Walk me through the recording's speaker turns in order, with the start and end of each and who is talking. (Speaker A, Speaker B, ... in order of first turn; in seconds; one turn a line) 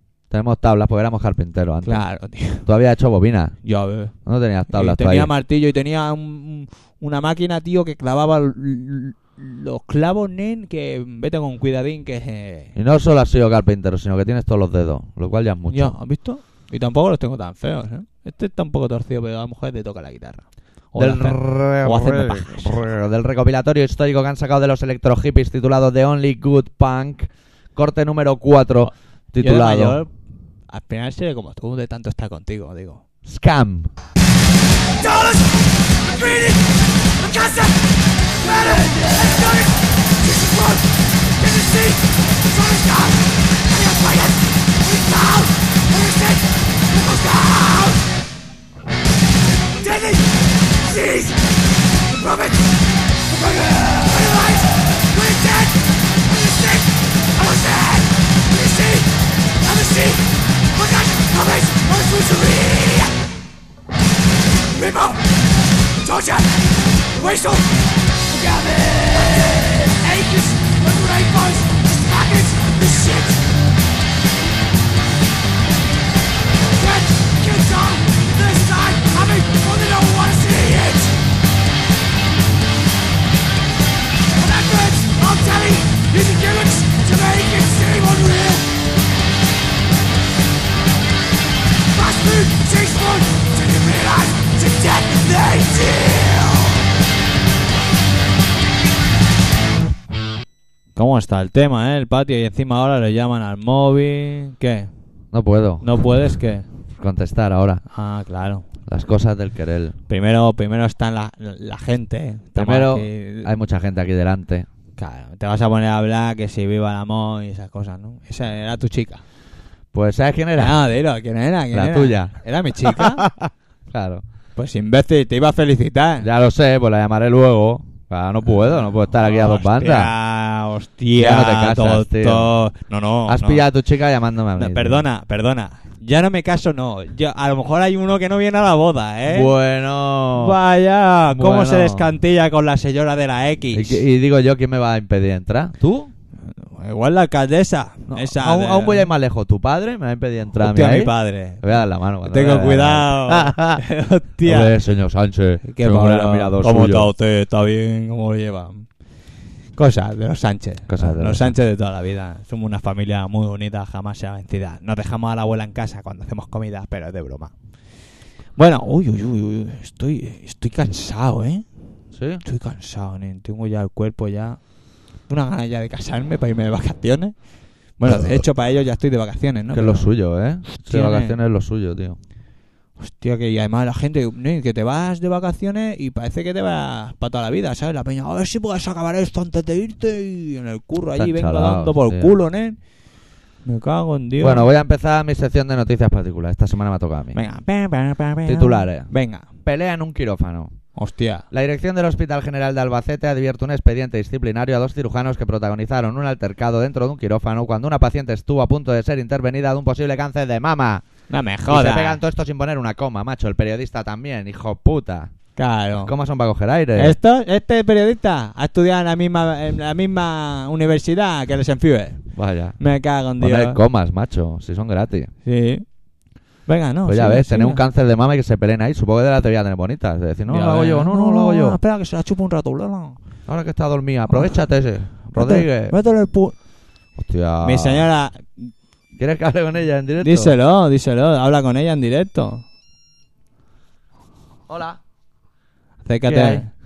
Speaker A: 0.3-2.0
Speaker B: 1.9-2.7
Speaker A: 2.6-3.6
Speaker B: 3.6-4.1
Speaker A: 4.2-5.3
Speaker B: 4.7-12.7
Speaker A: 12.8-15.9
Speaker B: 15.7-22.9
Speaker A: 21.0-30.0
Speaker B: 29.4-30.1
Speaker B: 30.7-33.0
Speaker A: 33.2-33.9
Speaker C: 35.0-37.9
Speaker C: 38.4-48.0
Speaker C: 49.8-51.4
Speaker C: 52.1-52.7
Speaker C: 53.3-59.1
Speaker C: 59.6-63.1
Speaker C: 64.7-65.2
Speaker C: 66.0-66.5
Speaker C: 67.1-67.7
Speaker C: 68.3-73.4
Speaker C: 76.8-81.1
Speaker C: 84.4-88.7
Speaker C: 91.9-96.8
Speaker B: 101.0-104.9
Speaker A: 105.3-105.9
Speaker B: 105.8-106.7
Speaker A: 107.0-107.8
Speaker B: 107.9-108.7
Speaker A: 108.9-110.0
Speaker B: 110.1-113.5
Speaker A: 112.5-114.7
Speaker B: 115.0-119.2
Speaker A: 119.9-120.8
Speaker B: 120.6-123.3
Speaker A: 121.7-124.2
Speaker B: 124.6-126.3
Speaker A: 126.2-130.1
Speaker B: 128.7-133.6
Speaker A: 131.2-132.5
Speaker A: 133.3-135.0
Speaker B: 134.6-139.6
Speaker A: 139.3-140.6
Speaker B: 140.3-144.0
Speaker A: 141.3-142.1
Speaker A: 143.7-146.1
Speaker B: 146.4-149.1
Speaker A: 148.1-153.8
Speaker B: 150.6-154.8
Speaker A: 154.4-157.1
Speaker B: 155.6-158.9
Speaker B: 159.8-167.5
Speaker A: 160.9-161.5
Speaker B: 168.6-171.7
Speaker A: 172.1-172.4
Speaker B: 172.4-174.6
Speaker B: 175.3-177.3
Speaker B: 178.0-180.1
Speaker A: 178.0-178.4
Speaker A: 179.7-182.2
Speaker B: 180.7-181.4
Speaker B: 183.0-192.8
Speaker A: 191.2-192.3
Speaker B: 193.7-194.7
Speaker A: 194.4-197.4
Speaker B: 197.3-199.5
Speaker A: 198.5-199.1
Speaker A: 199.6-200.8
Speaker B: 201.0-201.5
Speaker A: 201.5-211.1
Speaker B: 211.3-212.2
Speaker A: 211.7-215.3
Speaker B: 215.6-216.1
Speaker A: 216.0-217.2
Speaker B: 217.0-222.2
Speaker A: 222.3-222.8
Speaker B: 222.8-223.8
Speaker A: 223.4-225.3
Speaker B: 225.4-225.9
Speaker B: 226.7-227.8
Speaker A: 227.1-231.8
Speaker B: 230.5-233.2
Speaker A: 233.5-236.0
Speaker B: 235.3-236.6
Speaker A: 237.2-238.1
Speaker B: 237.6-238.7
Speaker A: 239.2-240.6
Speaker B: 240.2-242.7
Speaker A: 244.7-245.0
Speaker B: 246.1-246.7
Speaker A: 246.3-246.7